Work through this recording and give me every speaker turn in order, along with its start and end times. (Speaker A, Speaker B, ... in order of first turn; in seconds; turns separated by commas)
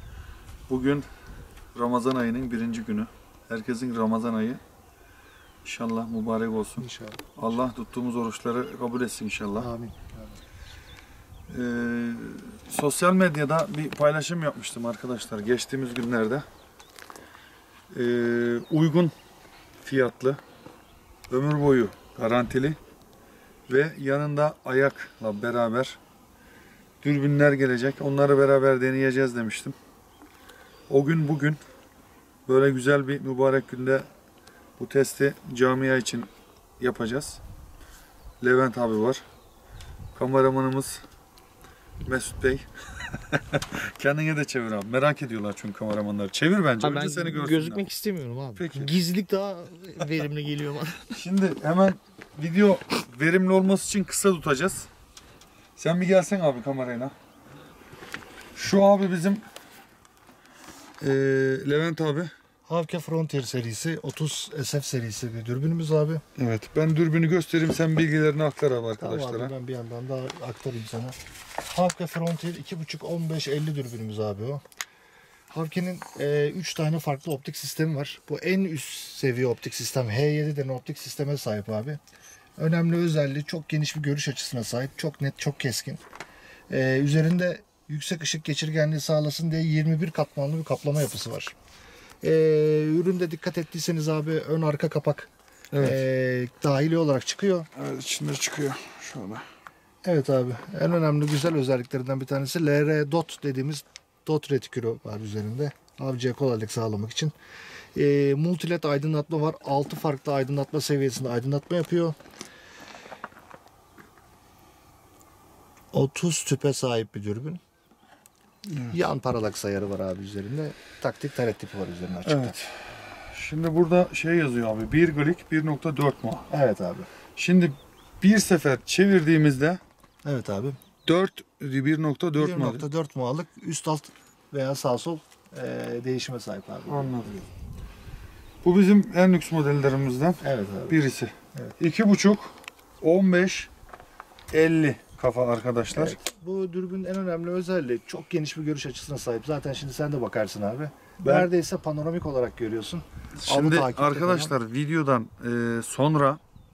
Speaker A: 0.7-1.1, Speaker A: 1.7-4.6, Speaker A: 5.6-9.7, Speaker B: 6.8-7.2, Speaker B: 9.6-10.4, Speaker A: 11.5-16.5, Speaker A: 17.9-19.1, Speaker A: 19.8-20.4, Speaker A: 21.3-22.8, Speaker A: 23.7-26.0, Speaker A: 27.0-29.8, Speaker A: 30.9-31.6, Speaker A: 32.5-34.1, Speaker A: 34.8-37.4, Speaker A: 38.4-39.2, Speaker A: 40.1-41.0, Speaker A: 42.0-47.8, Speaker C: 46.8-51.1, Speaker A: 48.6-49.0, Speaker A: 51.1-54.9, Speaker A: 55.8-57.1, Speaker A: 58.6-59.4, Speaker A: 61.0-62.3, Speaker B: 62.7-66.2, Speaker A: 66.4-69.5, Speaker B: 69.0-74.6, Speaker B: 75.5-82.0, Speaker B: 82.6-86.0, Speaker B: 86.7-91.5, Speaker B: 92.2-97.7, Speaker A: 95.7-96.0, Speaker A: 97.8-99.5, Speaker B: 100.0-107.3, Speaker B: 107.9-112.2, Speaker B: 115.9-117.6, Speaker A: 118.7-119.0, Speaker B: 118.9-122.5, Speaker A: 122.2-126.5, Speaker B: 126.5-127.1, Speaker A: 127.4-129.8, Speaker B: 130.2-130.8, Speaker A: 131.1-132.9, Speaker B: 132.4-137.5, Speaker A: 136.9-137.4, Speaker A: 138.6-143.7, Speaker B: 140.4-141.0, Speaker A: 144.5-146.2, Speaker B: 145.9-154.5, Speaker A: 151.2-151.5, Speaker A: 153.4-156.4